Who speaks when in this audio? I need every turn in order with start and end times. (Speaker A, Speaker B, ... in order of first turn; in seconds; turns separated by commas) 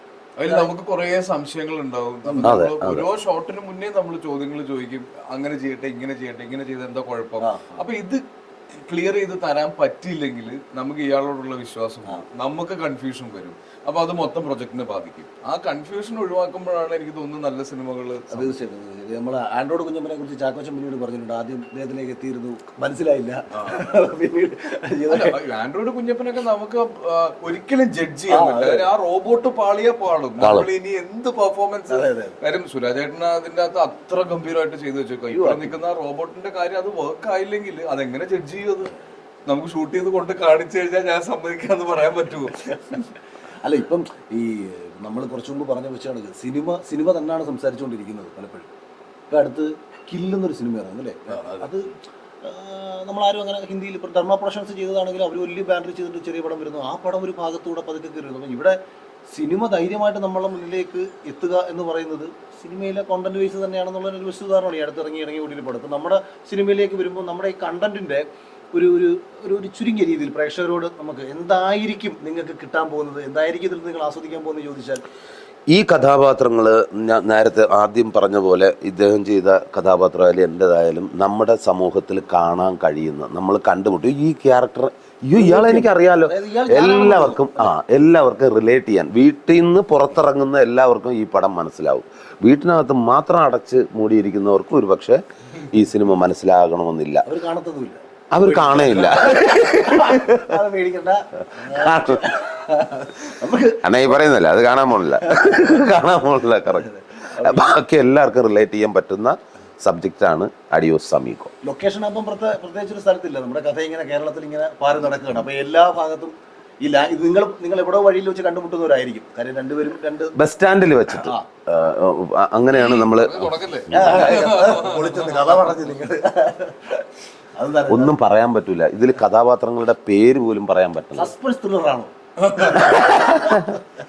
Speaker A: 0.4-8.2, Speaker B: 2.3-2.5, Speaker C: 2.4-3.0, Speaker B: 7.4-7.8, Speaker A: 8.8-18.6, Speaker B: 18.3-25.4, Speaker A: 23.5-23.9, Speaker A: 25.1-38.9, Speaker B: 28.3-28.8, Speaker C: 30.4-30.7, Speaker B: 31.9-32.4, Speaker B: 35.3-35.7, Speaker A: 39.5-43.1, Speaker B: 43.6-48.7, Speaker B: 49.3-58.8, Speaker A: 51.3-51.7, Speaker B: 59.3-75.0, Speaker C: 75.7-95.2, Speaker B: 85.3-87.7, Speaker C: 95.7-97.2, Speaker B: 97.2-104.2, Speaker C: 98.3-100.5, Speaker C: 101.6-102.3, Speaker C: 103.8-111.5, Speaker B: 105.2-105.9, Speaker B: 106.7-107.8, Speaker B: 111.6-120.4, Speaker C: 120.3-124.2, Speaker B: 121.1-121.5, Speaker A: 122.8-125.9, Speaker B: 123.9-127.0, Speaker B: 127.6-128.1, Speaker C: 127.9-131.3, Speaker B: 131.1-133.8, Speaker A: 132.4-133.0, Speaker C: 132.7-133.8